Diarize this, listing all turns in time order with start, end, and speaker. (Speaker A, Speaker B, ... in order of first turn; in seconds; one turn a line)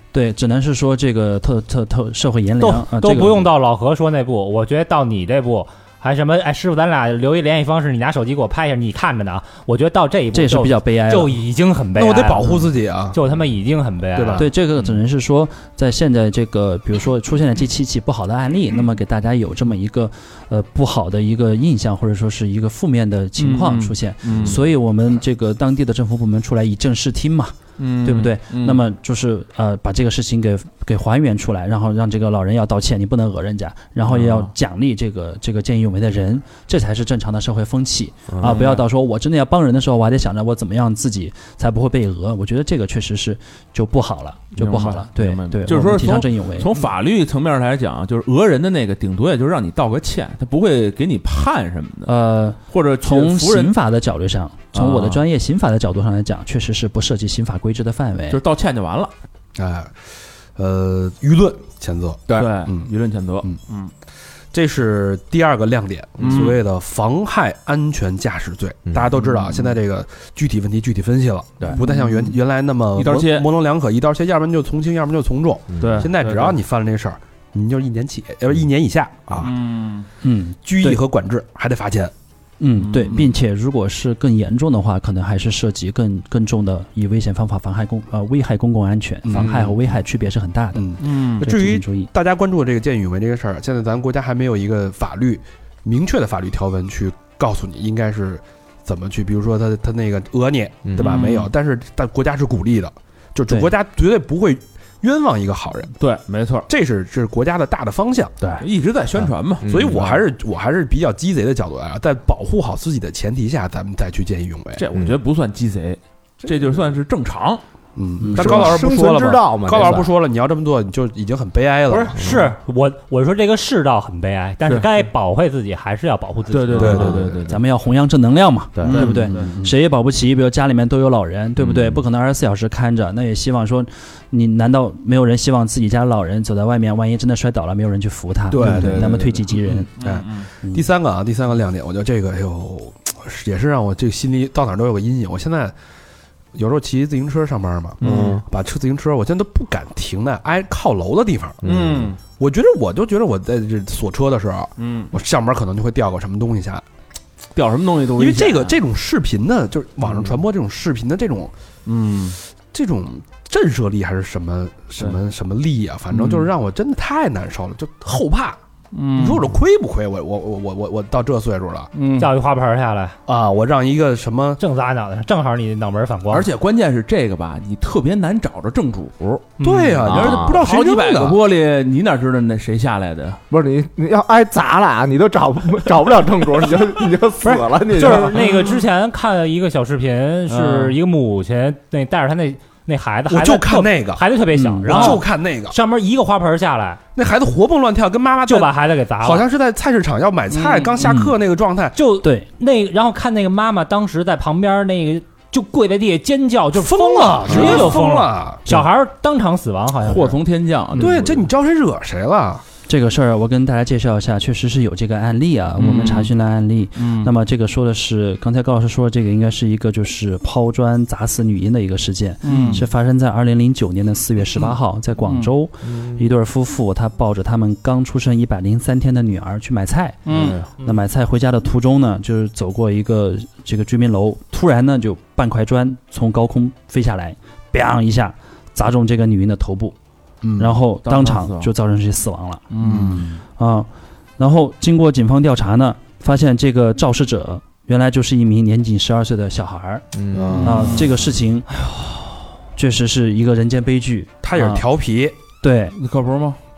Speaker A: 0.1-3.5
Speaker B: 2.6-14.5
Speaker A: 10.3-11.3
Speaker C: 11.9-13.2
Speaker C: 14.1-14.5
Speaker A: 14.3-46.7
Speaker D: 23.4-24.6
Speaker D: 27.8-28.8
Speaker D: 34.1-34.5
Speaker E: 38.3-38.6
Speaker D: 38.4-38.8
Speaker D: 44.5-52.1
Speaker A: 52.0-58.4
Speaker D: 52.7-53.7
Speaker D: 54.7-55.2
Speaker D: 58.3-59.1
Speaker C: 59.5-59.9
Speaker C: 60.5-62.9
Speaker D: 62.3-63.9
Speaker C: 64.5-79.5
Speaker D: 66.2-66.6
Speaker D: 69.2-69.6
Speaker D: 71.7-72.3
Speaker D: 73.0-73.5
Speaker E: 75.8-76.1
Speaker D: 75.8-76.5
Speaker D: 79.4-80.0
Speaker A: 80.2-81.0
Speaker C: 80.6-82.1
Speaker A: 82.6-92.1
Speaker D: 82.8-83.2
Speaker C: 89.2-89.8
Speaker C: 90.7-106.0
Speaker D: 91.0-91.4
Speaker E: 100.8-101.2
Speaker D: 101.0-101.5
Speaker D: 106.0-106.7
Speaker C: 106.7-108.3
Speaker E: 108.4-108.7
Speaker D: 108.6-110.2
Speaker E: 109.6-110.1
Speaker C: 109.7-114.8
Speaker D: 114.8-117.6
Speaker C: 118.0-122.3
Speaker A: 118.2-118.7
Speaker E: 118.3-120.1
Speaker B: 121.9-127.0
Speaker D: 126.5-127.6
Speaker C: 126.7-127.4
Speaker E: 126.8-127.4
Speaker A: 127.5-139.9
Speaker E: 128.7-129.1
Speaker D: 128.8-129.5
Speaker C: 128.9-129.7
Speaker D: 131.7-131.9
Speaker C: 138.5-139.2
Speaker E: 138.6-139.1
Speaker D: 138.6-140.5
Speaker C: 140.0-145.7
Speaker C: 146.5-151.6
Speaker D: 148.0-148.4
Speaker E: 148.0-148.4
Speaker E: 151.6-152.1
Speaker D: 151.6-152.2
Speaker C: 152.4-156.8
Speaker D: 154.8-155.1
Speaker D: 157.5-158.8
Speaker C: 158.2-161.5
Speaker D: 161.8-162.4
Speaker C: 162.7-168.6
Speaker D: 166.1-166.5
Speaker D: 168.9-169.5
Speaker C: 169.1-171.9
Speaker D: 171.9-172.3
Speaker B: 172.2-173.2
Speaker C: 173.3-174.6
Speaker B: 174.6-176.5
Speaker D: 176.3-179.5
Speaker B: 179.6-180.1
Speaker C: 179.6-181.4
Speaker E: 180.0-180.6
Speaker D: 180.1-183.4
Speaker E: 183.5-188.4
Speaker B: 187.4-197.0
Speaker D: 188.1-188.7
Speaker D: 190.5-191.0
Speaker C: 193.3-194.2
Speaker A: 194.5-195.2
Speaker C: 194.9-195.8
Speaker C: 197.2-202.0
Speaker B: 198.4-199.4
Speaker D: 200.5-200.9
Speaker A: 201.0-201.3
Speaker B: 201.9-210.4
Speaker A: 202.2-202.5
Speaker C: 206.7-208.6
Speaker D: 207.5-207.9
Speaker D: 210.0-211.5
Speaker C: 210.9-212.6
Speaker A: 212.9-239.9
Speaker D: 215.8-216.3
Speaker D: 217.0-217.3
Speaker D: 222.4-222.8
Speaker E: 222.5-222.8
Speaker D: 225.2-225.5
Speaker E: 225.8-226.2
Speaker D: 230.2-230.6
Speaker E: 230.3-230.6
Speaker C: 240.4-240.7
Speaker A: 240.6-242.6
Speaker D: 241.0-241.7
Speaker D: 242.7-243.4
Speaker C: 242.8-243.2
Speaker A: 243.5-250.0
Speaker E: 250.1-251.1
Speaker D: 250.3-251.1
Speaker A: 250.6-251.7
Speaker A: 252.7-254.8
Speaker C: 254.4-255.3
Speaker A: 255.6-255.9
Speaker D: 255.9-256.6